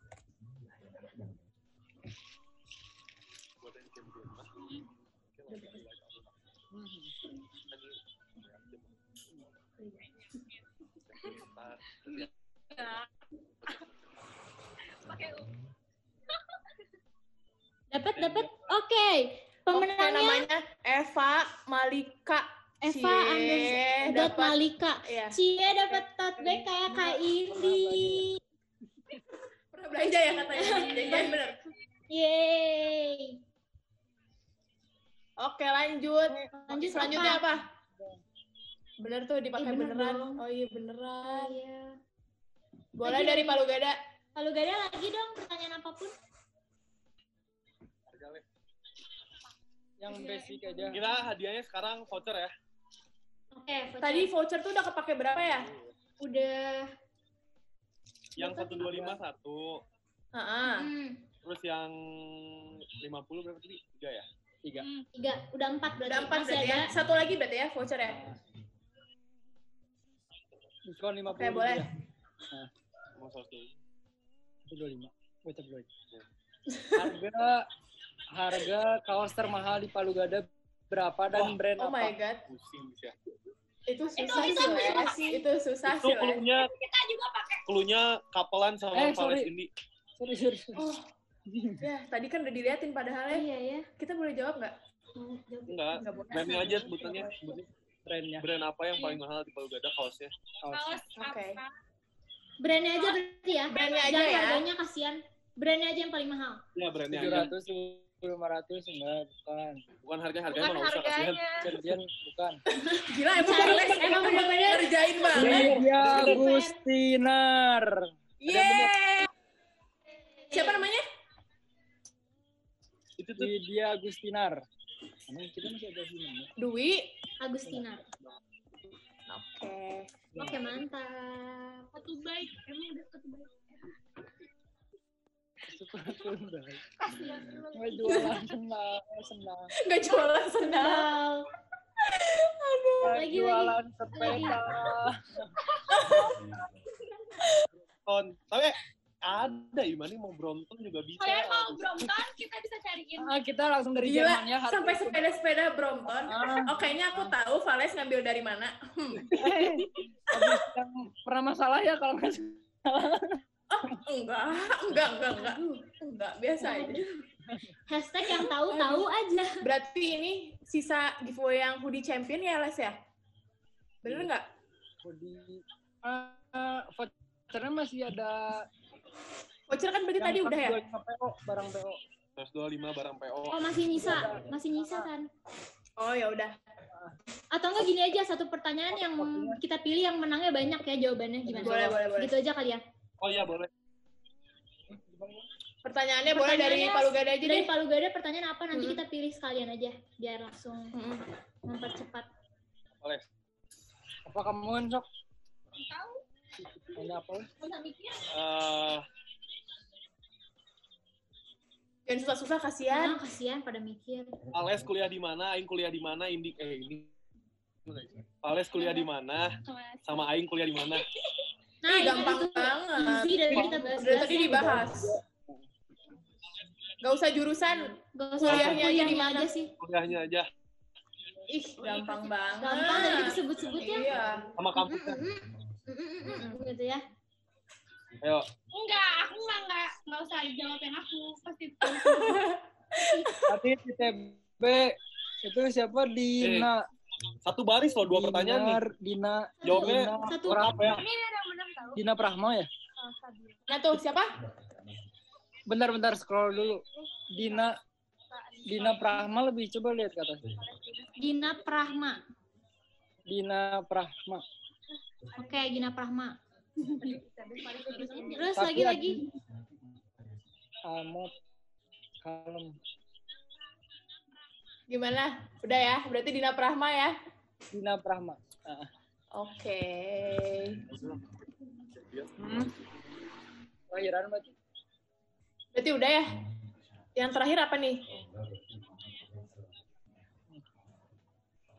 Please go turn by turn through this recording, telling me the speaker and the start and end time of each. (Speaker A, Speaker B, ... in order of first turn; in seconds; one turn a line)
Speaker A: 3.6-4.6
Speaker A: 5.3-6.3
Speaker B: 6.7-7.1
Speaker A: 7.7-8.9
Speaker A: 11.1-12.3
Speaker C: 12.7-13.1
Speaker C: 15.0-15.5
Speaker D: 17.9-20.5
Speaker A: 18.1-18.7
Speaker E: 19.7-25.4
Speaker D: 22.8-28.4
Speaker B: 26.4-28.3
Speaker E: 29.7-31.6
Speaker D: 30.6-31.4
Speaker D: 32.1-33.4
Speaker E: 35.4-37.7
Speaker B: 36.3-37.4
Speaker D: 36.5-37.5
Speaker E: 39.0-41.6
Speaker D: 39.5-40.4
Speaker D: 41.3-42.0
Speaker E: 43.0-44.0
Speaker D: 43.0-43.6
Speaker D: 44.4-46.1
Speaker A: 48.1-48.5
Speaker B: 50.0-51.0
Speaker C: 50.1-51.0
Speaker A: 50.9-52.5
Speaker D: 53.5-54.3
Speaker E: 54.0-55.7
Speaker A: 55.5-55.9
Speaker D: 56.2-56.9
Speaker A: 58.4-59.8
Speaker B: 58.5-59.2
Speaker E: 60.3-60.9
Speaker D: 60.7-61.2
Speaker A: 61.4-64.3
Speaker C: 64.8-65.1
Speaker D: 65.1-66.9
Speaker E: 66.0-68.3
Speaker B: 68.1-68.4
Speaker B: 70.8-71.9
Speaker E: 71.3-71.9
Speaker A: 73.2-73.7
Speaker B: 74.7-75.9
Speaker E: 76.7-77.1
Speaker B: 77.0-77.7
Speaker B: 78.3-82.1
Speaker A: 81.3-81.6
Speaker E: 81.8-82.4
Speaker A: 82.5-83.1
Speaker E: 83.9-86.5
Speaker D: 84.2-85.4
Speaker C: 84.2-85.2
Speaker A: 85.9-86.7
Speaker C: 86.6-87.6
Speaker A: 87.7-89.7
Speaker B: 88.9-89.5
Speaker B: 90.2-90.9
Speaker E: 90.8-91.1
Speaker B: 91.5-91.8
Speaker E: 91.8-93.5
Speaker D: 93.3-93.9
Speaker E: 94.0-94.8
Speaker D: 95.2-97.2
Speaker A: 95.7-97.7
Speaker E: 95.9-97.3
Speaker B: 98.1-98.5
Speaker A: 98.4-100.3
Speaker B: 100.6-101.0
Speaker C: 100.7-101.7
Speaker E: 101.2-101.6
Speaker D: 102.6-106.6
Speaker E: 103.7-104.7
Speaker C: 103.7-104.1
Speaker A: 106.8-107.5
Speaker B: 107.1-109.8
Speaker A: 110.0-111.8
Speaker C: 110.5-111.7
Speaker B: 111.6-112.6
Speaker D: 112.9-116.8
Speaker E: 113.0-115.8
Speaker B: 115.3-118.9
Speaker A: 116.0-116.3
Speaker E: 118.4-119.3
Speaker E: 120.5-121.0
Speaker D: 120.5-120.8
Speaker A: 123.2-123.5
Speaker B: 123.4-124.6
Speaker B: 125.3-126.5
Speaker E: 126.6-127.1
Speaker D: 127.4-128.1
Speaker E: 129.3-130.1
Speaker B: 130.3-130.8
Speaker D: 130.4-131.9
Speaker C: 131.9-133.6
Speaker B: 135.6-139.7
Speaker C: 137.0-138.5
Speaker E: 139.8-141.1
Speaker D: 140.6-141.5
Speaker E: 142.1-143.2
Speaker B: 143.0-145.6
Speaker D: 143.0-144.6
Speaker C: 145.7-146.5
Speaker E: 145.9-146.4
Speaker A: 148.1-151.8
Speaker C: 151.2-153.3
Speaker B: 151.4-152.1
Speaker B: 153.2-155.2
Speaker E: 154.0-159.4
Speaker B: 156.3-156.8
Speaker B: 159.3-164.0
Speaker A: 159.3-159.7
Speaker E: 163.7-167.1
Speaker D: 165.3-165.6
Speaker D: 166.6-167.2
Speaker B: 167.5-167.8
Speaker D: 167.9-169.6
Speaker E: 168.3-169.1
Speaker E: 169.6-172.9
Speaker E: 174.0-174.5
Speaker B: 175.0-178.7
Speaker E: 179.7-180.8
Speaker B: 180.2-182.0
Speaker A: 182.4-183.7
Speaker D: 183.5-185.3
Speaker B: 184.0-185.1
Speaker E: 186.0-186.6
Speaker D: 187.5-192.8
Speaker B: 188.9-189.6
Speaker B: 191.4-191.9
Speaker E: 191.6-192.3
Speaker A: 193.2-193.7
Speaker B: 194.9-195.4
Speaker E: 195.8-197.7
Speaker D: 196.3-200.9
Speaker E: 198.7-199.0
Speaker E: 200.9-201.2
Speaker D: 201.7-202.3
Speaker A: 203.0-203.3
Speaker B: 204.3-205.1
Speaker C: 205.8-206.2
Speaker B: 206.8-207.5
Speaker C: 207.6-208.3
Speaker A: 208.3-209.1
Speaker E: 212.1-213.2
Speaker D: 212.9-214.3
Speaker A: 214.5-217.1
Speaker A: 217.9-221.1
Speaker C: 218.7-219.1
Speaker C: 219.6-220.3
Speaker D: 221.8-224.8
Speaker E: 221.9-225.2
Speaker B: 223.5-225.7
Speaker E: 227.0-229.5
Speaker D: 228.1-229.7
Speaker A: 228.4-228.9
Speaker A: 229.8-230.5
Speaker E: 231.5-234.5
Speaker C: 231.8-233.0
Speaker D: 232.6-234.2
Speaker A: 234.6-235.3
Speaker D: 234.8-237.0
Speaker E: 236.2-236.6
Speaker A: 238.2-238.5
Speaker C: 238.7-242.4
Speaker E: 241.8-243.5
Speaker B: 243.4-246.9
Speaker A: 246.4-246.7
Speaker A: 247.4-248.8
Speaker B: 248.0-250.9
Speaker A: 249.6-251.1
Speaker D: 249.7-250.8
Speaker C: 250.9-252.0
Speaker B: 251.9-252.7
Speaker C: 253.0-253.6
Speaker E: 253.7-254.4
Speaker B: 255.7-257.8
Speaker C: 258.3-259.3
Speaker B: 258.6-260.5
Speaker C: 260.6-261.2
Speaker D: 261.2-262.2
Speaker B: 263.3-264.4
Speaker D: 265.4-266.4
Speaker B: 266.8-269.2
Speaker C: 267.1-268.4
Speaker D: 268.1-269.2
Speaker B: 270.8-271.3
Speaker B: 272.2-272.8
Speaker E: 274.9-277.1
Speaker B: 277.7-278.9
Speaker E: 279.3-280.9
Speaker A: 280.9-282.5
Speaker B: 282.4-282.7
Speaker B: 283.9-284.6
Speaker E: 285.8-286.4
Speaker E: 287.2-288.1